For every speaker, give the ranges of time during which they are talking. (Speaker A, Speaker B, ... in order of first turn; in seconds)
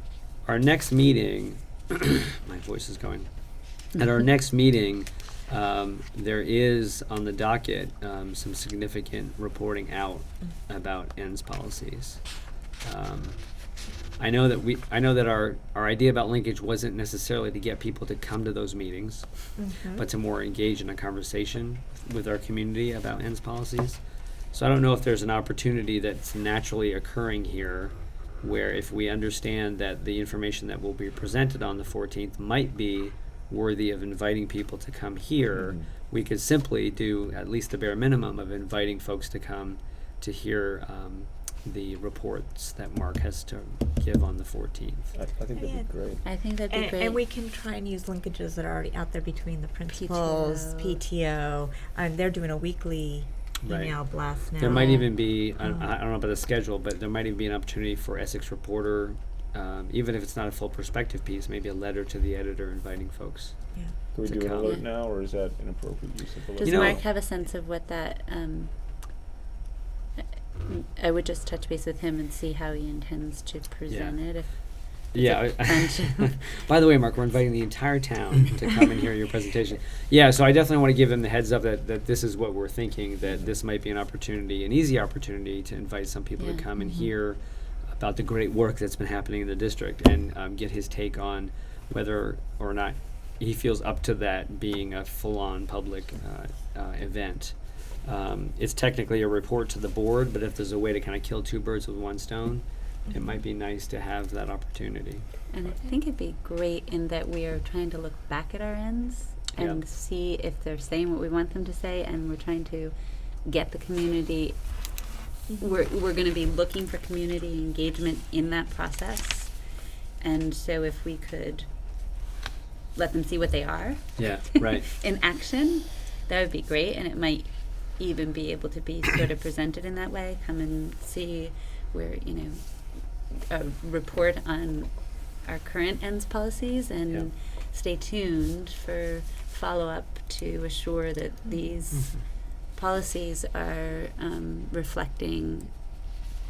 Speaker A: 0.4-3.3, 3.9-12.2, 12.8-13.4, 14.2-19.3, 19.9-24.0, 24.5-45.1, 53.6-54.0, 54.6-63.5, 64.2-64.8, 66.6-67.0, 73.9-74.2, 75.1-105.2, 109.5-109.8, 124.2-124.9, 141.9-142.2
Speaker B: 19.6-20.0, 45.5-45.9, 46.7-55.9, 86.8-87.1
Speaker C: 35.5-35.9, 45.1-46.2, 64.1-67.0
Speaker D: 46.2-47.2, 49.9-51.0, 54.6-55.1, 66.6-68.7, 70.6-76.4, 86.4-86.6, 105.5-112.9, 113.4-114.6, 115.6-119.5, 120.2-121.7, 122.9-132.6, 133.3-145.7